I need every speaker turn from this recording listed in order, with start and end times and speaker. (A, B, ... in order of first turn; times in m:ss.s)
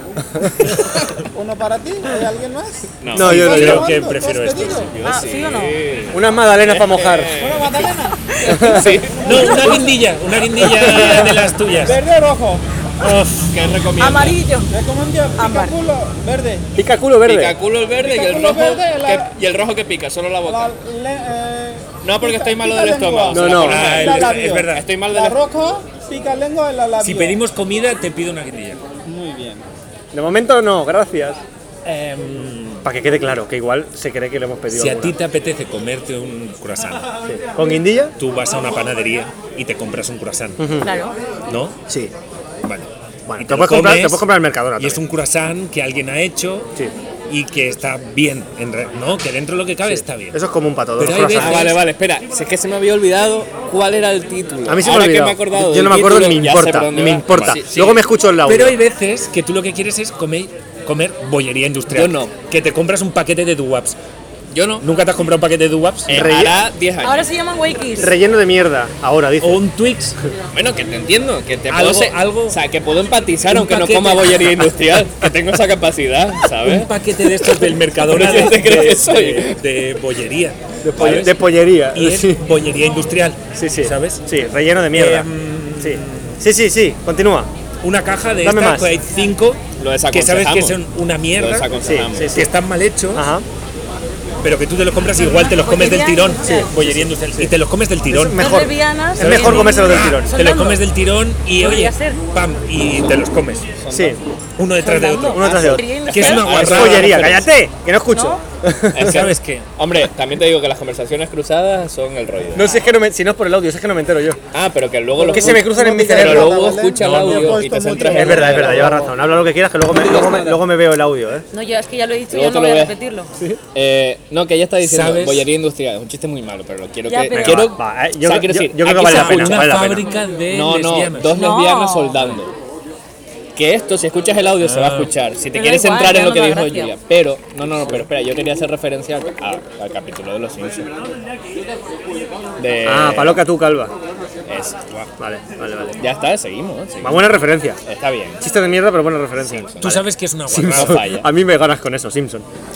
0:00.4-0:00.8 A
0:01.3-0:04.9 B
0:03.0-0:03.8 C
0:03.1-0:03.9 A
0:03.2-0:04.9 D
0:04.9-0:09.8 C
0:05.0-0:05.8 E
0:06.1-0:07.4 A
0:07.3-0:08.4 B
0:08.5-0:09.0 A
0:09.1-0:10.0 B
0:09.2-0:12.0 D
0:10.6-0:11.5 C
0:11.2-0:12.6 B
0:13.0-0:13.5 D
0:13.5-0:14.4 C
0:14.0-0:14.7 E
0:14.7-0:16.7 B
0:15.4-0:15.7 E
0:16.8-0:17.6 A
0:17.2-0:20.7 C
0:18.0-0:19.3 B
0:20.4-0:27.4 B
0:22.0-0:25.4 C
0:23.3-0:24.0 A
0:23.6-0:24.8 D
0:27.0-0:28.8 D
0:29.0-0:29.6 B
0:30.1-0:31.4 A
0:31.8-0:32.9 D
0:32.8-0:35.2 A
0:34.7-0:37.1 D
0:37.3-0:38.1 A
0:38.2-0:40.8 D
0:40.6-0:40.9 A
0:40.8-0:41.2 E
0:41.5-0:41.8 D
0:42.6-0:46.7 D
0:43.3-0:45.0 A
0:47.3-0:50.4 D
0:49.9-0:51.7 A
0:51.0-0:51.8 D
0:51.3-0:58.1 C
0:54.7-0:58.8 A
0:57.3-0:57.6 D
0:58.4-1:04.0 D
1:01.9-1:02.3 C
1:04.5-1:04.9 C
1:04.8-1:06.3 D
1:06.1-1:07.3 C
1:06.1-1:06.6 A
1:07.0-1:08.2 E
1:08.0-1:09.6 A
1:09.4-1:10.2 D
1:10.5-1:19.6 C
1:11.7-1:12.6 D
1:13.5-1:14.7 D
1:16.6-1:21.3 D
1:20.8-1:22.4 A
1:21.0-1:21.3 C
1:21.9-1:24.2 D
1:23.6-1:25.3 A
1:24.9-1:26.4 D
1:25.8-1:27.5 A
1:27.8-1:31.7 D
1:28.4-1:28.9 A
1:29.8-1:30.8 C
1:31.4-1:32.4 C
1:31.8-1:32.5 A
1:32.3-1:33.3 D
1:33.1-1:33.4 A
1:34.4-1:38.6 D
1:35.2-1:36.7 E
1:36.4-1:37.5 A
1:38.1-1:40.3 A
1:38.3-1:40.8 E
1:39.2-1:43.7 D
1:41.6-1:42.2 E
1:43.8-1:44.2 C
1:43.9-1:44.2 A
1:44.6-1:47.4 D
1:44.8-1:46.5 E
1:45.3-1:45.9 A
1:46.1-1:47.5 C
1:46.4-1:49.3 A
1:48.1-1:48.4 E
1:48.9-1:52.8 C
1:49.0-1:49.7 D
1:52.5-1:54.4 A
1:54.5-1:59.1 C
1:55.2-1:56.8 A
1:55.2-1:59.1 B
1:57.0-1:57.6 D
1:58.0-2:01.5 A
1:59.9-2:00.6 C
2:01.5-2:03.3 E
2:02.3-2:02.9 C
2:03.7-2:09.7 C
2:04.8-2:05.5 D
2:07.1-2:07.6 E
2:07.3-2:10.0 A
2:09.0-2:11.4 D
2:10.5-2:12.5 C
2:11.3-2:12.3 E
2:13.6-2:20.9 C
2:14.6-2:15.1 D
2:15.5-2:16.9 E
2:22.6-2:23.5 C
2:22.8-2:23.9 A
2:24.5-2:25.0 C
2:25.2-2:26.0 A
2:26.0-2:28.4 C
2:27.0-2:27.8 A
2:28.4-2:29.7 A
2:29.4-2:30.0 C
2:29.8-2:31.0 D
2:30.5-2:32.5 A
2:30.6-2:31.3 C